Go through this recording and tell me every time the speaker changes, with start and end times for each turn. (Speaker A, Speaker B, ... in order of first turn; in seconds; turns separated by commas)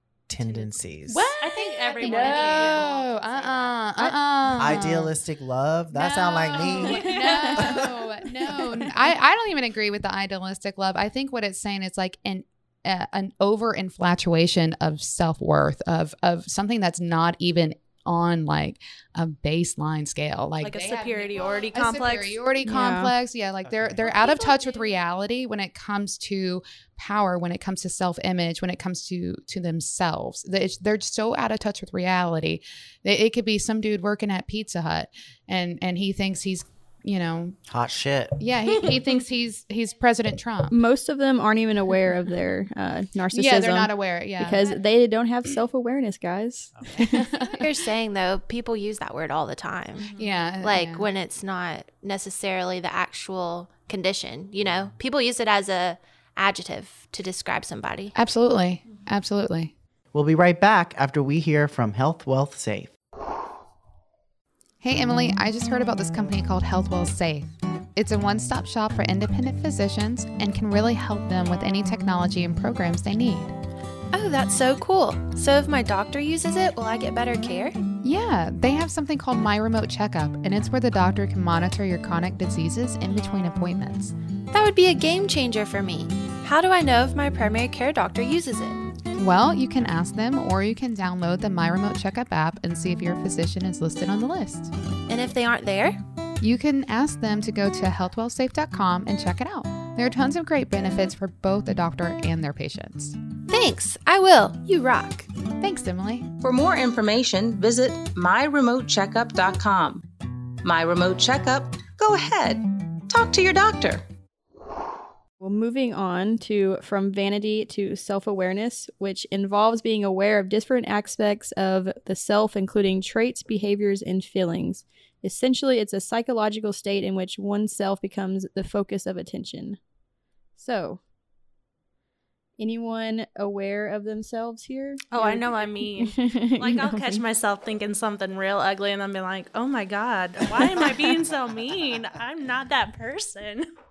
Speaker A: 0.3-1.3, Speaker B: 0.4-3.7, Speaker C: 1.1-5.2, Speaker D: 2.0-3.2, Speaker A: 4.6-8.0, Speaker C: 5.9-37.6, Speaker B: 6.7-7.7, Speaker B: 20.6-22.4, Speaker E: 22.6-23.1, Speaker A: 23.6-24.1, Speaker B: 24.0-25.0, Speaker A: 37.7-38.9, Speaker C: 38.4-40.8, Speaker E: 40.7-47.1, Speaker C: 43.3-44.7, Speaker A: 46.8-47.1, Speaker C: 47.0-47.7, Speaker D: 47.6-58.1, Speaker B: 50.0-50.3, Speaker C: 50.1-51.1, Speaker A: 54.6-54.9, Speaker C: 58.1-59.7, Speaker A: 60.1-62.9, Speaker C: 64.8-73.5, Speaker D: 74.1-77.8, Speaker C: 78.0-84.1, Speaker D: 84.5-88.8, Speaker C: 89.2-94.7, Speaker D: 95.1-96.0, Speaker C: 96.4-103.2, Speaker D: 103.5-105.3, Speaker C: 105.6-106.3, Speaker F: 106.4-110.0, Speaker F: 110.6-114.1, Speaker E: 115.4-129.8, Speaker E: 130.6-131.0, Speaker E: 132.6-137.2, Speaker B: 135.1-143.7